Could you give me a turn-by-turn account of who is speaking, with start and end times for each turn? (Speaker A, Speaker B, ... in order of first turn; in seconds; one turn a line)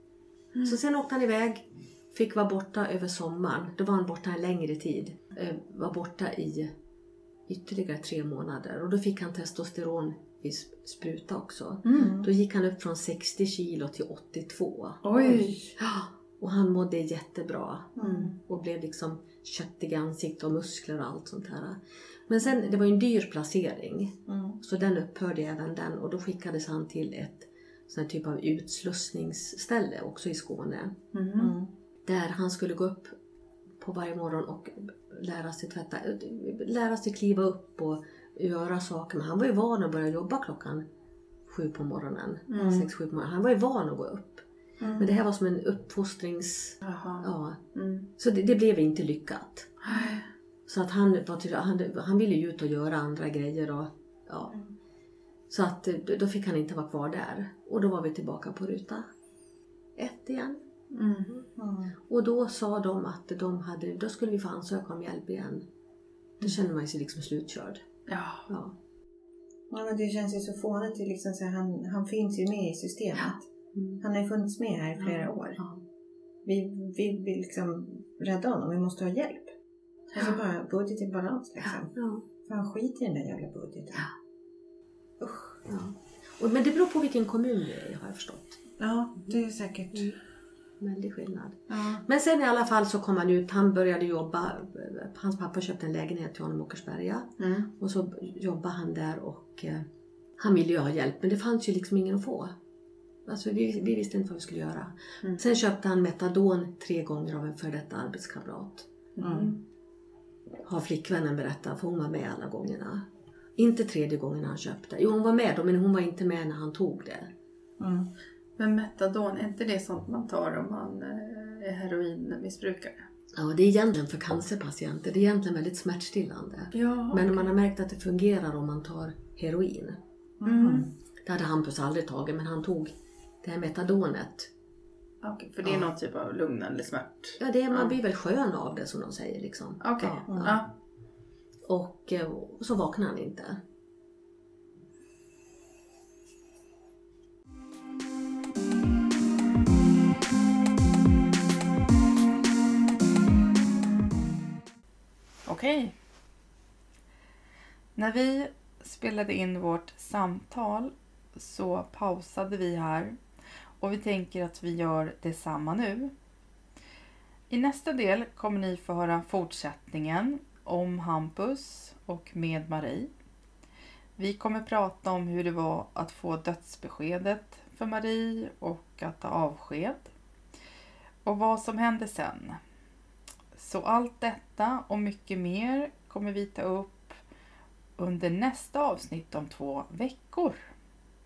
Speaker A: 0.6-6.7
Speaker A: 7.5-31.0
Speaker B: 11.8-12.1
Speaker C: 11.9-12.3
Speaker B: 15.0-15.7
Speaker C: 18.0-18.4
Speaker B: 18.0-18.4
Speaker C: 24.3-24.6
Speaker B: 31.1-31.6
Speaker C: 31.4-31.7
Speaker A: 32.1-33.2
Speaker A: 33.8-40.9
Speaker A: 41.5-44.5
Speaker B: 42.5-42.8
Speaker C: 42.6-42.9
Speaker C: 44.8-45.1
Speaker A: 45.0-47.6
Speaker B: 46.8-48.1
Speaker A: 48.2-49.8
Speaker B: 49.8-50.3
Speaker A: 50.7-54.6
Speaker A: 55.5-59.1
Speaker A: 60.0-60.6
Speaker B: 60.9-61.4
Speaker C: 61.5-62.0
Speaker A: 62.1-65.7
Speaker A: 66.4-67.8
Speaker B: 68.1-68.5
Speaker A: 68.5-68.8
Speaker C: 69.7-73.4
Speaker A: 73.3-74.0
Speaker C: 74.0-75.6
Speaker C: 76.5-79.5
Speaker C: 80.1-84.1
Speaker A: 81.7-82.2
Speaker C: 85.2-85.6
Speaker A: 85.7-88.6
Speaker C: 88.8-90.2
Speaker A: 90.8-99.9
Speaker C: 91.7-92.0
Speaker B: 97.4-97.7
Speaker A: 100.4-102.5
Speaker A: 103.3-108.9
Speaker B: 109.2-109.6
Speaker C: 109.2-109.5
Speaker A: 110.6-117.3
Speaker C: 117.8-118.1
Speaker B: 118.6-123.1
Speaker A: 123.3-130.0
Speaker B: 126.7-127.5
Speaker C: 130.4-130.9
Speaker B: 130.4-130.9
Speaker A: 131.2-134.5
Speaker B: 135.2-138.0
Speaker A: 135.6-135.9
Speaker A: 137.4-140.6
Speaker B: 139.8-140.7
Speaker C: 140.3-140.6
Speaker A: 141.7-143.6
Speaker B: 155.5-155.9
Speaker B: 158.0-163.2
Speaker B: 163.8-166.1
Speaker B: 167.5-173.1
Speaker B: 174.2-180.1
Speaker B: 181.2-182.6
Speaker B: 183.5-187.2
Speaker B: 188.0-190.6